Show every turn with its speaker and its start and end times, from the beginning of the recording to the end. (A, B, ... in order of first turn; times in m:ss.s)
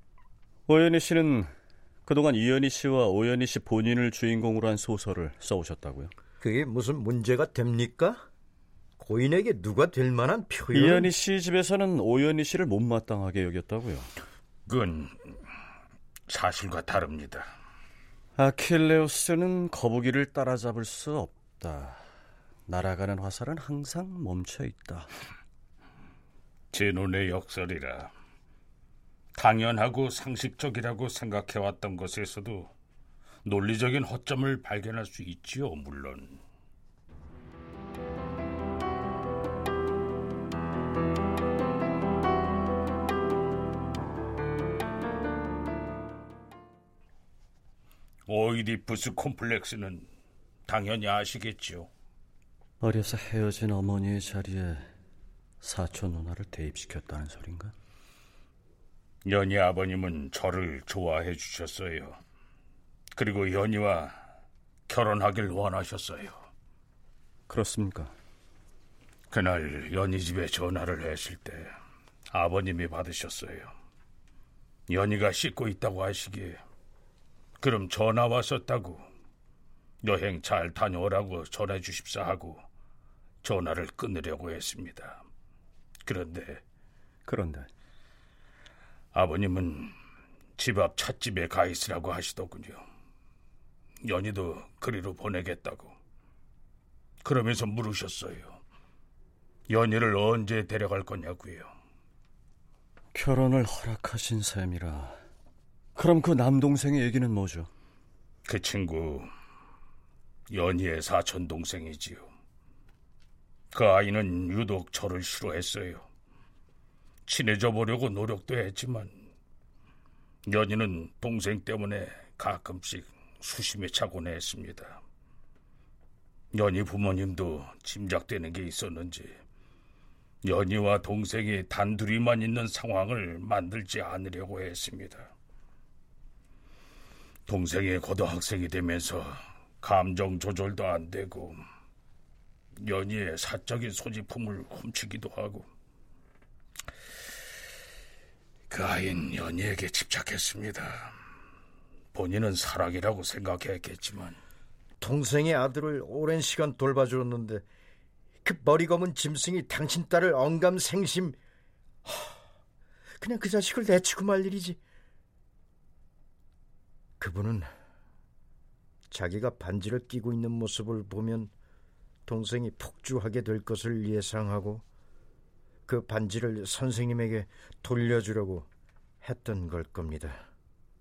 0:00.7-0:01.5 A
0:02.0-0:06.1 A
0:06.4-0:08.2 B
0:09.0-0:11.1 B
0:10.7-0:14.1 A
0:14.7-0:15.1 C
0:16.3-0:17.5 C
0:18.4-0:22.0 A
0:22.7-0:25.1 A
0:26.7-0:28.1 C
0:29.3-0:32.7 C
0:33.4-0:36.4 C
0:48.3-0:50.1 C
0:50.7-0:51.9 C
0:52.8-0:54.9 A
0:55.6-0:57.7 A
0:59.2-1:02.2 C
1:03.2-1:04.2 C
1:04.9-1:06.4 C
1:07.5-1:08.1 A
1:09.3-1:11.7 C
1:12.3-1:13.7 C
1:14.9-1:16.6 C
1:17.6-1:19.0 C
1:20.0-1:22.6 C
1:23.4-1:25.2 C
1:26.0-1:26.6 C
1:27.2-1:27.7 A
1:29.1-1:29.9 C
1:30.6-1:32.8 C
1:34.0-1:35.9 C
1:37.2-1:38.6 C
1:39.7-1:41.7 C
1:43.1-1:45.2 A
1:46.0-1:47.7 A
1:48.4-1:49.3 C
1:50.5-1:52.3 C
1:53.7-1:56.0 C
1:57.2-1:59.1 C
2:00.4-2:05.0 C
2:06.5-2:09.4 C
2:10.4-2:15.3 C
2:17.5-2:21.6 C
2:22.8-2:25.7 C
2:28.7-2:31.1 C
2:32.1-2:34.4 C
2:35.0-2:37.6 B
2:38.4-2:41.4 B
2:42.0-2:42.4 B
2:43.2-2:44.8 B
2:47.2-2:47.7 B
2:49.1-2:51.5 B
2:52.3-2:54.8 B
2:55.9-2:58.6 B
2:59.2-3:00.4 B